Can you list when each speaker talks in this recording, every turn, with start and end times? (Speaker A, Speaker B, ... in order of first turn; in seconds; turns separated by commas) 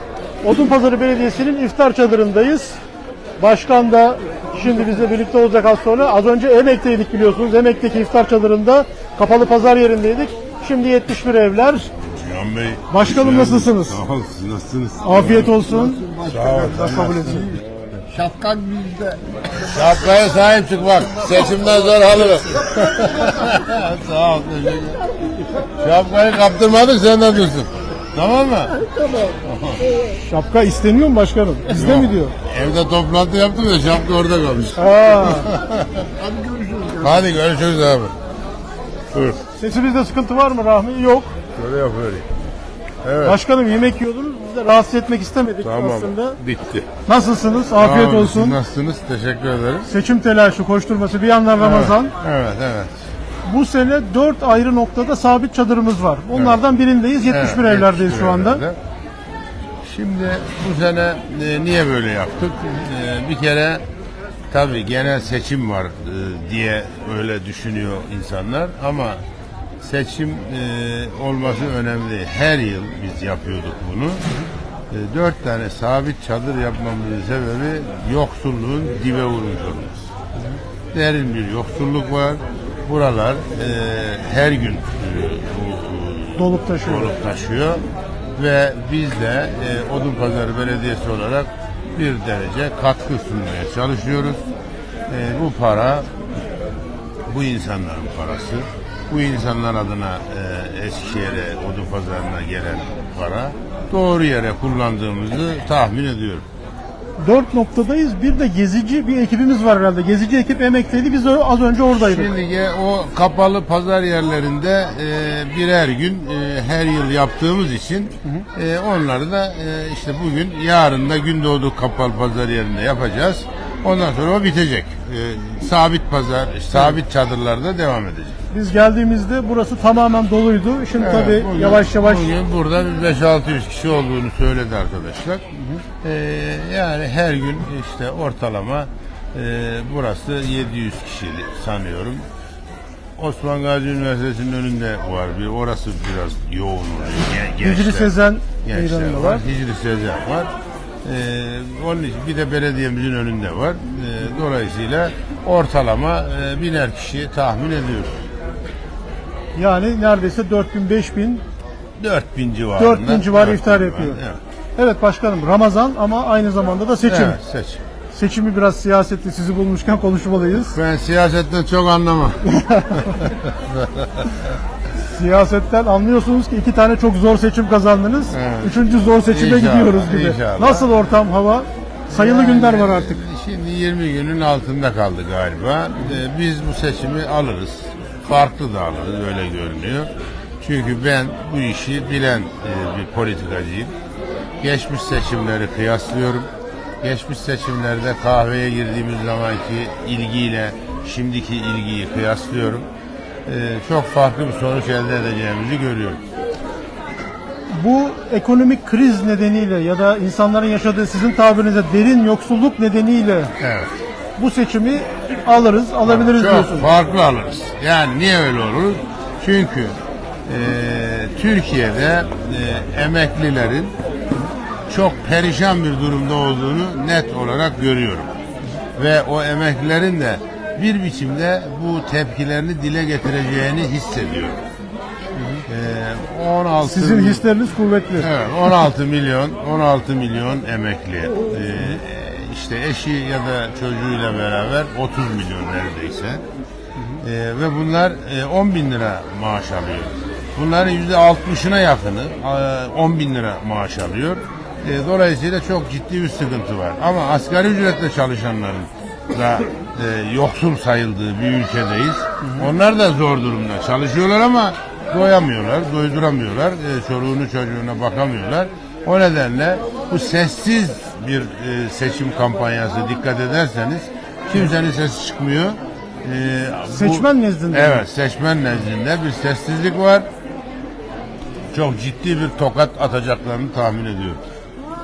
Speaker A: 0.4-2.8, Speaker A: 3.4-11.9, Speaker B: 12.0-15.6, Speaker A: 12.9-14.0, Speaker A: 15.0-16.0, Speaker C: 15.5-19.2, Speaker B: 16.2-17.6, Speaker A: 16.6-17.6, Speaker B: 19.6-25.0, Speaker B: 25.6-28.8, Speaker B: 29.4-29.8, Speaker A: 30.0-32.3, Speaker B: 31.7-36.1, Speaker A: 34.8-35.5, Speaker C: 36.2-37.1, Speaker B: 36.9-38.1, Speaker B: 39.1-39.4, Speaker A: 39.5-41.3, Speaker B: 41.5-42.2, Speaker B: 43.0-43.4, Speaker A: 43.2-46.4, Speaker B: 45.6-46.9, Speaker A: 47.0-48.6, Speaker B: 47.8-49.9, Speaker A: 49.9-52.1, Speaker B: 51.6-52.9, Speaker A: 53.4-58.6, Speaker B: 56.3-56.6, Speaker B: 57.3-58.8, Speaker B: 59.8-63.8, Speaker B: 64.5-69.2, Speaker B: 69.8-74.2, Speaker B: 74.9-80.1, Speaker B: 80.9-87.8, Speaker A: 86.4-87.1, Speaker B: 88.4-94.4, Speaker B: 95.1-96.1, Speaker B: 97.3-106.4, Speaker A: 107.2-112.3, Speaker B: 112.0-128.4, Speaker A: 128.5-132.3, Speaker B: 131.0-135.4, Speaker A: 135.6-135.8, Speaker B: 136.0-142.2, Speaker B: 143.2-148.1, Speaker A: 147.6-149.4, Speaker B: 148.6-150.5, Speaker B: 151.0-158.2, Speaker A: 159.6-161.4, Speaker B: 162.0-164.4, Speaker A: 162.8-164.2, Speaker A: 164.8-167.4, Speaker B: 167.0-167.8, Speaker A: 168.1-170.8, Speaker B: 170.7-174.4, Speaker A: 172.4-173.3, Speaker A: 175.0-183.2, Speaker B: 178.3-178.8, Speaker B: 179.3-180.9, Speaker B: 182.1-193.9, Speaker B: 194.6-196.5, Speaker B: 197.0-202.9, Speaker B: 203.4-206.2, Speaker A: 207.7-213.5, Speaker B: 213.6-213.9, Speaker A: 214.4-216.9, Speaker B: 216.0-219.9, Speaker B: 220.5-223.9, Speaker B: 224.9-228.3, Speaker B: 228.9-234.6, Speaker A: 235.4-235.6, Speaker B: 235.7-237.4, Speaker A: 236.8-238.8, Speaker B: 238.2-246.4, Speaker A: 247.0-247.2, Speaker B: 247.2-280.3, Speaker A: 262.4-262.7, Speaker A: 276.9-278.0, Speaker B: 281.7-284.4